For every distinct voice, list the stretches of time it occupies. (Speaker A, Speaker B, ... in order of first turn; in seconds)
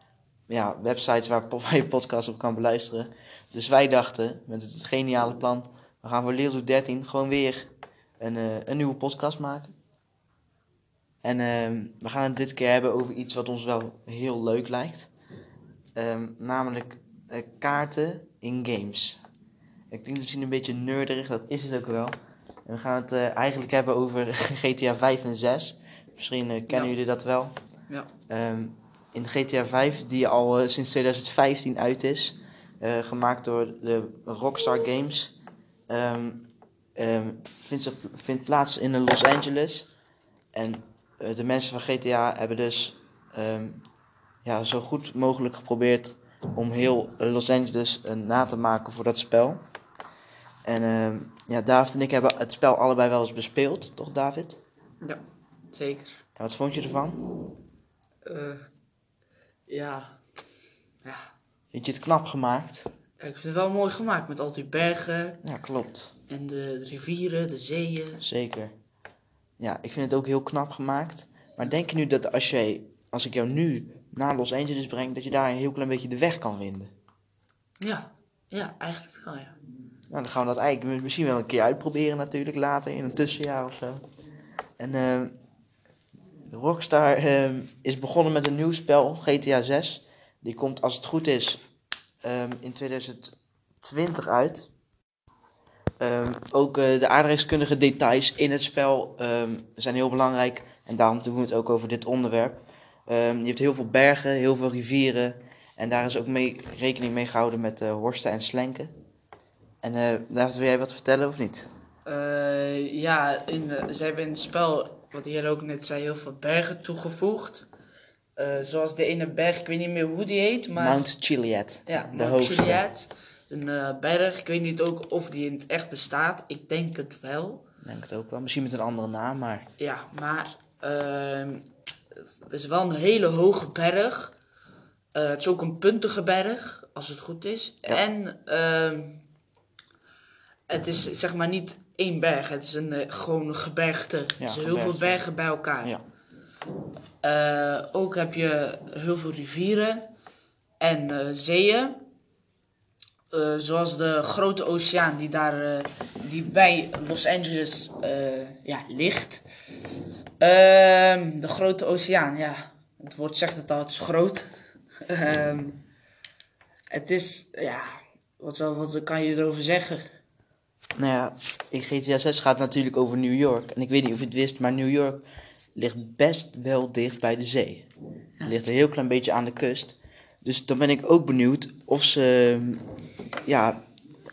Speaker A: 0.5-9.7, 11.2-15.1, 15.9-19.2, 19.9-27.5, 28.3-35.3, 35.9-39.9, 40.5-43.8, 44.4-49.6, 50.6-54.6, 56.4-57.2, 61.7-62.9, 65.4-66.1, 68.2-68.7, 69.6-76.9, 80.1-84.0, 84.8-85.3, 86.5-91.6, 92.2-94.7, 96.0-108.9, 109.8-111.7, 120.8-122.8, 127.8-129.7, 144.4-145.2, 171.0-177.9, 178.4-182.8, 183.4-183.8
Speaker B: 55.0-56.2, 58.2-58.7, 59.7-60.1, 61.0-61.3, 63.2-65.4, 66.3-68.2, 77.8-79.5, 112.0-117.7, 118.3-121.0, 121.9-127.6, 129.8-131.7, 132.4-134.3, 135.1-139.2, 140.7-145.9, 147.2-150.1, 150.8-152.0, 153.3-159.4, 160.4-165.8, 166.9-170.0